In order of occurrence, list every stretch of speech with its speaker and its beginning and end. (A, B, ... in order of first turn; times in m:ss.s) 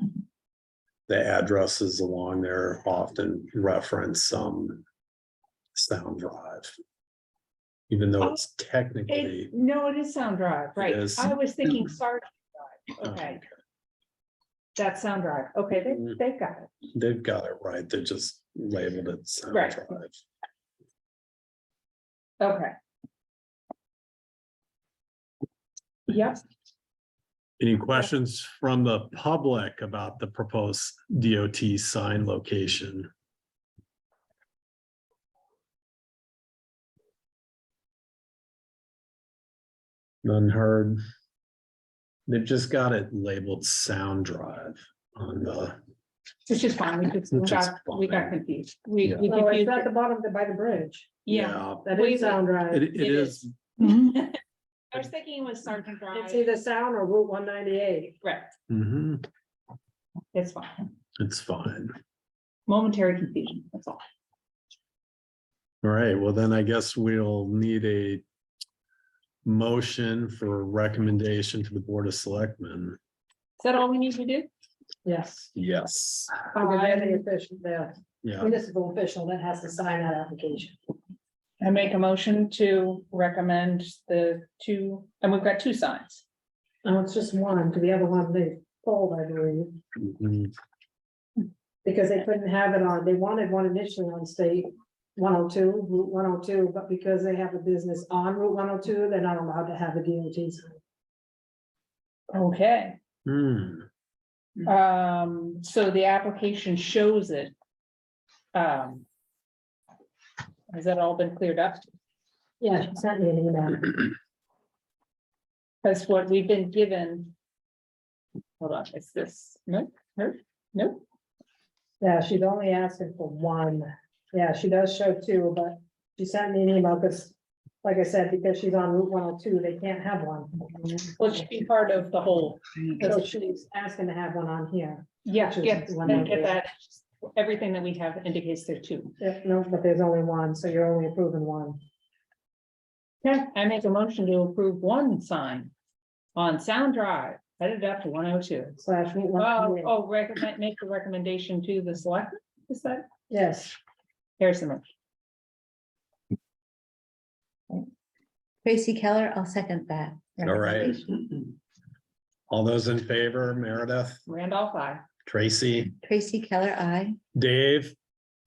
0:01.1-0:04.8 A
0:05.8-0:06.7 A
0:07.9-0:09.5 A
0:09.1-0:13.4 B
0:10.8-0:11.3 A
0:13.0-0:13.5 A
0:14.8-0:16.7 B
0:16.9-0:20.1 A
0:19.5-0:19.9 B
0:22.4-0:22.7 B
0:26.1-0:26.4 B
0:27.6-0:33.1 A
0:40.2-0:41.0 A
0:42.3-0:45.8 A
0:46.5-0:49.9 B
0:47.3-0:48.4 A
0:49.2-0:51.2 C
0:51.2-0:54.4 B
0:51.3-0:52.0 A
0:51.8-0:52.9 C
0:52.7-0:53.5 A
0:54.9-0:56.5 B
0:56.1-0:58.2 C
0:58.2-0:58.5 B
0:58.7-0:59.3 A
1:00.3-1:00.9 B
1:01.2-1:02.0 A
1:02.7-1:04.0 B
1:05.8-1:08.2 A
1:09.4-1:13.0 A
1:13.6-1:14.5 B
1:15.0-1:15.5 C
1:15.6-1:16.5 A
1:16.5-1:20.8 C
1:16.6-1:17.2 B
1:18.2-1:18.5 A
1:21.6-1:26.2 B
1:26.8-1:29.8 C
1:30.0-1:30.5 A
1:31.8-1:40.8 C
1:42.3-1:43.0 B
1:43.3-1:43.9 A
1:44.6-1:47.5 B
1:48.5-1:49.0 B
1:50.7-1:51.9 B
1:52.6-1:54.1 C
1:55.8-1:57.3 B
1:58.6-2:01.0 B
2:02.0-2:11.0 C
2:11.2-2:13.3 B
2:13.0-2:16.6 C
2:15.3-2:19.2 B
2:19.2-2:21.8 C
2:23.2-2:25.7 B
2:26.4-2:28.8 B
2:28.8-2:29.9 C
2:29.4-2:33.0 B
2:33.3-2:33.8 C
2:34.4-2:34.8 B
2:38.6-2:41.0 D
2:40.4-2:41.1 A
2:42.5-2:44.2 A
2:44.3-2:45.0 B
2:45.3-2:46.0 A
2:46.0-2:47.2 D
2:47.4-2:47.9 A